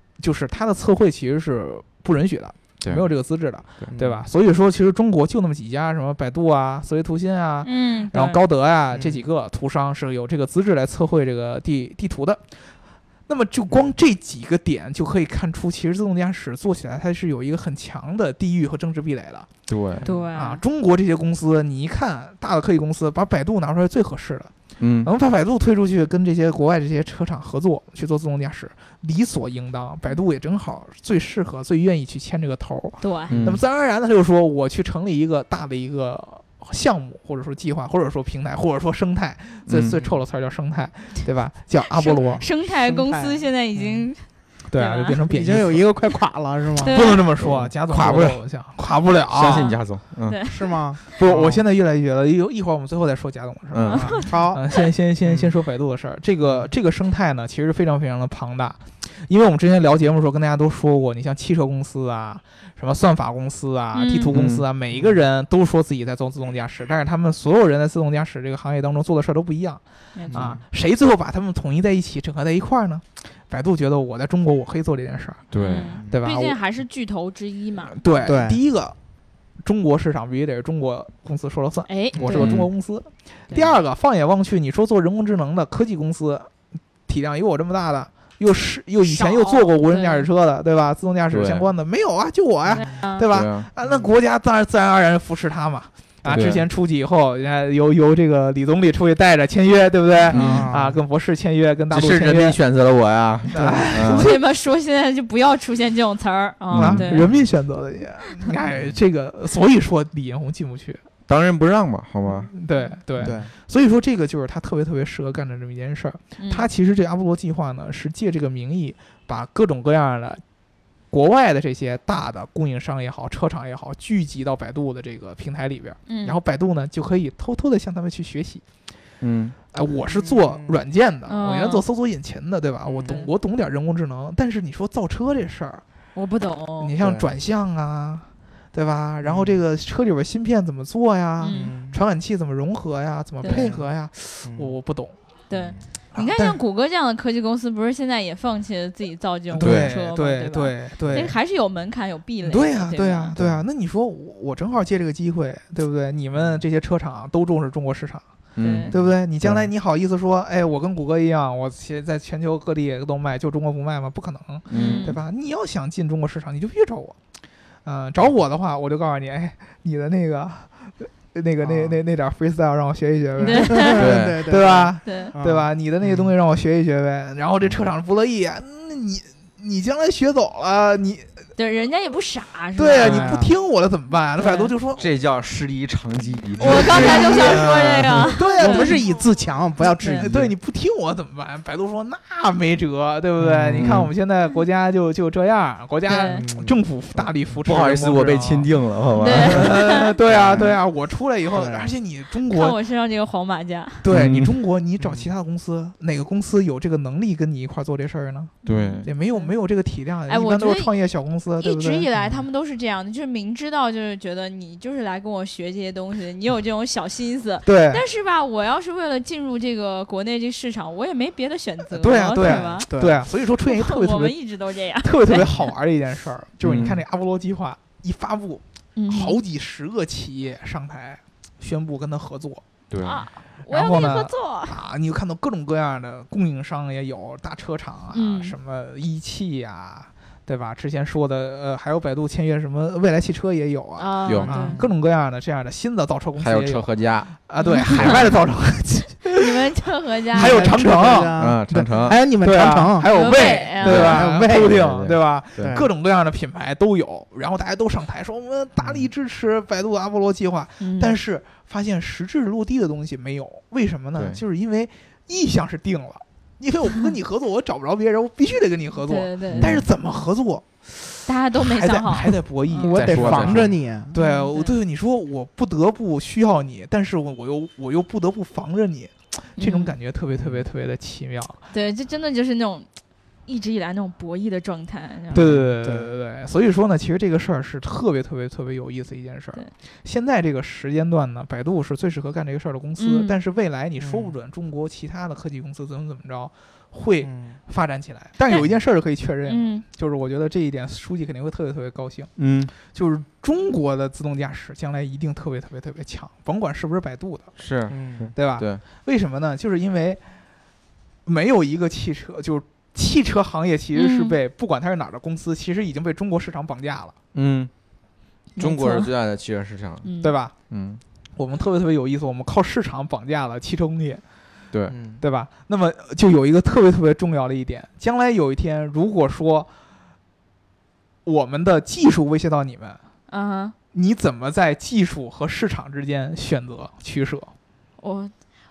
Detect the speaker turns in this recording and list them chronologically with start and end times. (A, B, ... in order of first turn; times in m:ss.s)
0:00.2-0:12.4 A
0:03.9-0:04.2 B
0:07.6-0:08.4 C
0:08.9-0:09.2 B
0:13.3-0:19.5 A
0:19.7-0:20.0 D
0:20.0-0:20.3 B
0:20.0-0:20.6 C
0:20.3-0:24.5 A
0:24.8-0:25.1 D
0:25.0-0:42.4 A
0:33.0-0:33.4 C
0:33.3-0:33.6 D
0:39.7-0:40.0 D
0:41.9-0:45.2 C
0:42.2-0:44.0 B
0:44.7-0:45.8 A
0:45.3-0:47.0 B
0:46.8-0:47.2 C
0:46.8-0:49.7 A
0:47.4-0:48.4 D
0:49.3-0:50.4 D
0:49.5-0:50.8 C
0:50.5-0:51.6 B
0:51.2-1:09.8 A
0:53.7-0:54.2 D
0:53.9-0:54.4 C
0:54.2-0:54.6 B
0:55.2-0:55.5 B
0:56.4-0:56.7 B
1:03.9-1:04.3 C
1:04.3-1:04.6 D
1:04.9-1:05.2 B
1:10.1-1:10.5 C
1:10.3-1:10.6 B
1:10.3-1:15.5 A
1:15.5-1:15.9 D
1:15.6-1:18.3 C
1:16.1-1:16.6 A
1:17.9-1:18.9 A
1:18.2-1:18.6 B
1:19.6-1:26.5 A
1:21.9-1:22.6 C
1:22.1-1:22.4 B
1:22.3-1:22.7 D
1:27.1-1:42.6 A
1:29.0-1:30.3 C
1:31.3-1:31.7 D
1:32.7-1:33.2 C
1:33.3-1:33.7 D
1:33.8-1:34.1 B
1:36.3-1:36.6 D
1:40.3-1:40.7 D
1:40.3-1:41.0 B
1:41.9-1:44.3 D
1:43.5-1:44.4 A
1:43.5-1:43.8 B
1:44.0-1:47.3 C
1:46.7-1:47.4 D
1:46.7-1:51.0 A
1:51.3-1:52.5 D
1:52.5-2:00.4 A
1:53.2-1:53.5 B
1:56.4-1:56.7 C
2:01.1-2:08.6 A
2:06.1-2:06.4 C
2:09.2-2:09.6 D
2:09.7-2:15.8 A
2:10.1-2:10.8 B
2:11.3-2:11.8 C
2:12.9-2:13.2 B
2:13.0-2:13.3 C
2:16.1-2:16.9 C
2:16.8-2:25.1 A
2:17.0-2:17.3 B
2:19.2-2:19.6 B
2:21.4-2:21.7 C
2:21.5-2:22.0 B
2:23.4-2:23.7 C
2:23.5-2:23.9 B
2:24.4-2:24.7 B
2:25.5-2:33.3 C
2:26.1-2:26.6 A
2:29.5-2:31.3 A
2:29.6-2:29.9 D
2:31.0-2:31.3 B
2:32.4-2:38.2 A
2:33.4-2:33.6 B
2:36.4-2:36.6 B
2:38.6-2:39.5 D
2:38.6-2:38.9 C
2:38.9-2:47.2 A
2:38.9-2:39.6 B
2:44.7-2:45.1 D
2:44.7-2:45.2 C
2:47.8-3:01.3 A
2:51.6-2:52.0 B
2:53.4-2:56.3 B
2:53.4-2:54.0 C
2:54.0-2:54.4 D
2:55.0-2:55.3 C
3:01.6-3:03.4 C
3:02.8-3:05.1 A
3:03.0-3:03.5 B
3:04.4-3:04.7 C
3:05.0-3:08.3 D
3:06.6-3:09.0 C
3:06.6-3:07.7 A
3:08.2-3:09.0 A
3:08.3-3:10.5 B
3:09.9-3:10.3 C
3:10.2-3:18.7 A
3:13.4-3:14.1 B
3:13.7-3:14.1 D
3:16.1-3:16.4 C
3:16.1-3:16.8 B
3:17.6-3:20.7 D
3:19.2-3:20.1 C
3:19.3-3:22.8 A
3:20.3-3:20.8 B
3:21.5-3:21.9 B
3:22.5-3:24.0 C
3:24.0-3:32.0 A
3:24.1-3:24.6 D
3:25.0-3:25.3 B
3:28.6-3:29.5 C
3:28.6-3:29.0 D
3:30.3-3:30.9 C
3:31.6-3:42.9 C
3:32.2-3:32.4 B
3:37.6-3:38.0 A
3:41.9-3:44.4 A
3:42.4-3:43.2 B
3:43.6-3:45.7 C
3:45.0-3:52.6 A
3:46.6-3:47.0 D
3:49.0-3:49.4 C
3:52.9-3:53.2 D
3:53.0-3:54.8 C
3:53.7-4:09.6 A
3:58.1-3:58.5 C
4:04.0-4:04.8 C
4:04.2-4:04.5 D
4:04.4-4:04.9 B
4:06.4-4:07.3 D
4:07.6-4:08.2 C
4:07.9-4:08.3 D
4:09.3-4:10.8 C
4:10.3-4:11.4 A
4:10.3-4:14.8 B
4:11.4-4:12.2 D
4:12.4-4:41.6 A
4:13.0-4:14.2 C
4:13.3-4:15.8 D
4:15.6-4:15.9 B
4:20.8-4:21.2 C
4:29.0-4:29.7 C
4:29.6-4:29.9 D
4:31.2-4:32.9 C
4:32.8-4:34.1 B
4:32.9-4:33.7 D
4:34.1-4:34.8 C
4:39.6-4:39.9 C
4:41.7-4:42.9 C
4:43.4-4:45.4 C
4:45.3-5:07.5 A
4:45.3-4:46.1 B
4:53.0-4:53.4 C
4:54.0-4:54.3 B
4:57.2-4:57.6 B
4:59.4-4:59.8 C
5:02.4-5:02.7 D
5:07.6-5:08.8 D
5:07.9-5:08.3 B
5:08.3-5:10.2 A
5:11.2-5:17.1 A
5:13.9-5:14.4 C
5:17.3-5:17.7 D
5:18.6-5:19.1 C
5:18.6-5:20.1 D
5:20.0-5:20.4 C
5:20.2-5:20.5 A
5:20.7-5:21.0 D
5:21.4-5:24.2 A
5:24.9-5:25.2 B
5:25.2-5:29.7 A
5:31.2-5:33.0 A
5:33.3-5:33.7 C
5:33.9-5:37.5 A
5:38.0-5:38.3 C